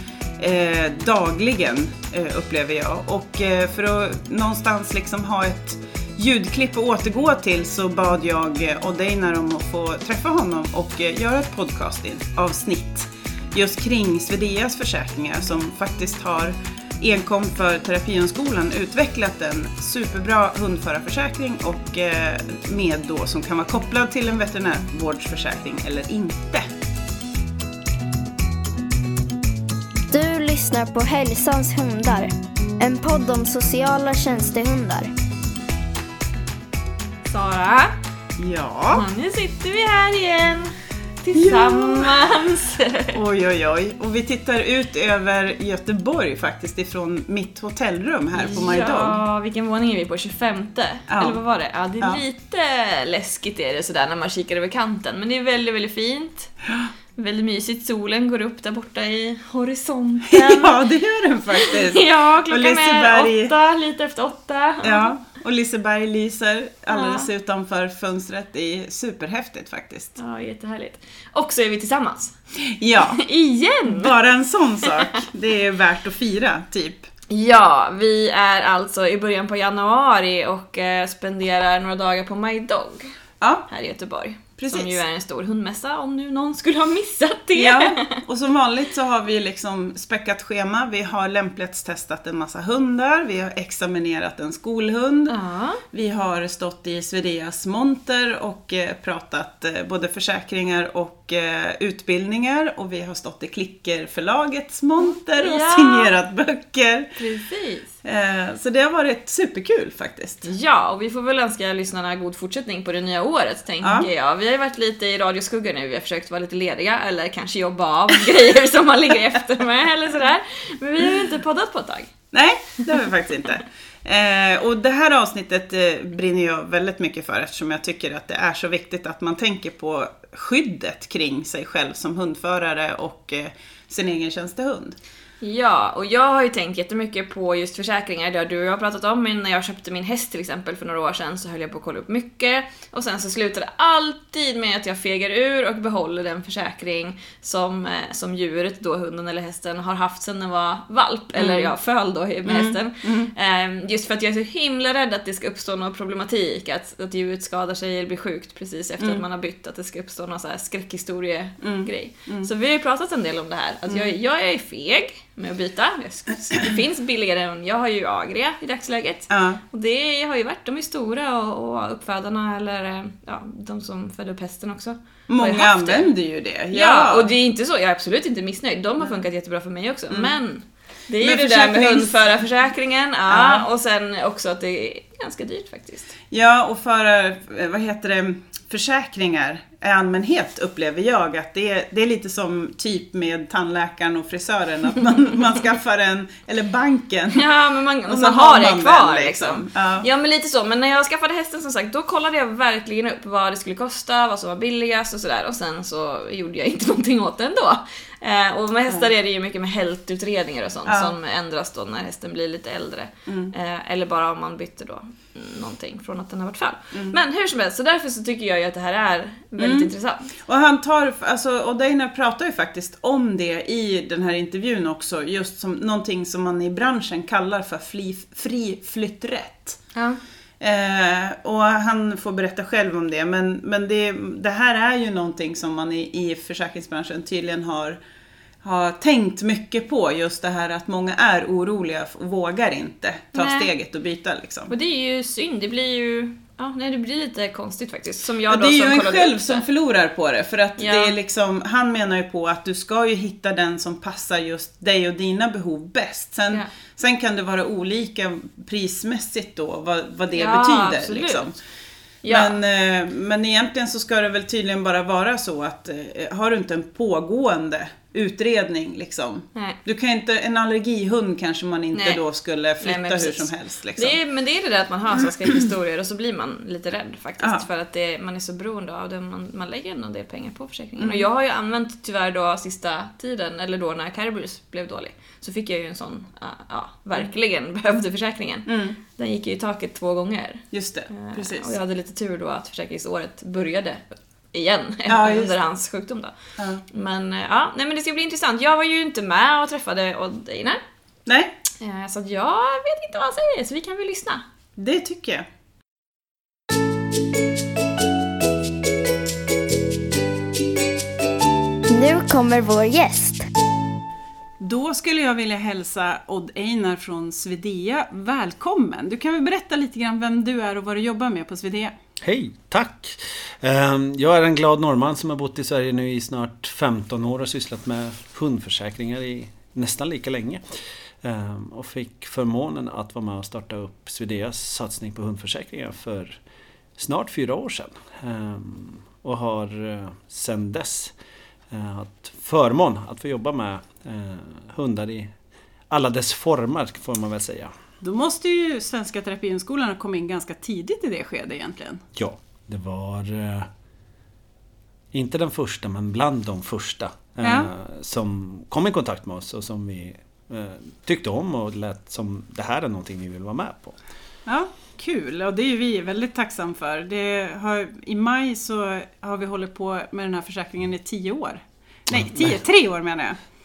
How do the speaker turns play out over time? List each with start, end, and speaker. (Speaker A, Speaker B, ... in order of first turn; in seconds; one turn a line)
Speaker A: 0.4-26.6
Speaker B: 30.1-35.1
Speaker C: 37.2-38.0
Speaker A: 38.4-39.0
Speaker C: 38.9-43.2
Speaker A: 41.3-42.2
Speaker A: 43.1-49.2
Speaker C: 48.4-56.5
Speaker A: 51.1-51.4
Speaker C: 57.2-60.8
Speaker A: 60.3-63.5
Speaker C: 61.5-65.1
Speaker A: 64.8-70.2
Speaker C: 66.9-67.3
Speaker C: 70.2-72.3
Speaker A: 72.6-73.2
Speaker C: 73.2-74.1
Speaker A: 73.9-77.1
Speaker C: 77.3-83.1
Speaker A: 83.4-83.7
Speaker C: 83.7-88.2
Speaker A: 84.6-85.0
Speaker A: 87.5-95.3
Speaker C: 95.3-95.8
Speaker A: 95.9-107.2
Speaker C: 105.0-106.1
Speaker C: 107.2-107.9
Speaker A: 108.0-110.5
Speaker C: 110.5-122.1
Speaker A: 113.8-114.1
Speaker A: 122.3-135.0
Speaker C: 135.4-176.1
Speaker A: 151.4-151.7
Speaker A: 152.5-153.3
Speaker A: 161.6-162.5
Speaker A: 169.3-169.6
Speaker A: 175.3-177.3
Speaker C: 176.7-186.2
Speaker A: 181.2-182.1
Speaker A: 183.3-183.7
Speaker A: 186.3-197.4
Speaker C: 197.3-220.3
Speaker A: 198.1-200.1
Speaker A: 210.9-211.1
Speaker A: 213.3-213.5
Speaker A: 219.6-229.8
Speaker A: 230.6-238.0
Speaker A: 238.6-244.7
Speaker C: 243.3-243.7
Speaker C: 244.7-249.6
Speaker A: 248.5-261.6
Speaker C: 250.8-251.1
Speaker C: 260.4-261.5
Speaker C: 262.2-262.6
Speaker A: 262.3-274.2
Speaker C: 271.9-272.2
Speaker C: 272.8-296.3
Speaker A: 281.0-281.2
Speaker A: 288.7-289.0
Speaker A: 290.7-291.7
Speaker A: 295.1-295.6
Speaker A: 296.6-296.8
Speaker C: 296.9-300.8
Speaker A: 301.3-301.6
Speaker C: 301.8-304.4
Speaker A: 304.8-305.5
Speaker B: 311.9-313.4
Speaker A: 314.6-321.9
Speaker D: 322.2-336.4
Speaker D: 337.0-341.1
Speaker D: 341.7-345.3
Speaker D: 345.9-347.7
Speaker A: 348.0-352.0
Speaker D: 352.1-353.7
Speaker D: 355.1-364.0
Speaker A: 357.4-357.7
Speaker A: 364.5-373.4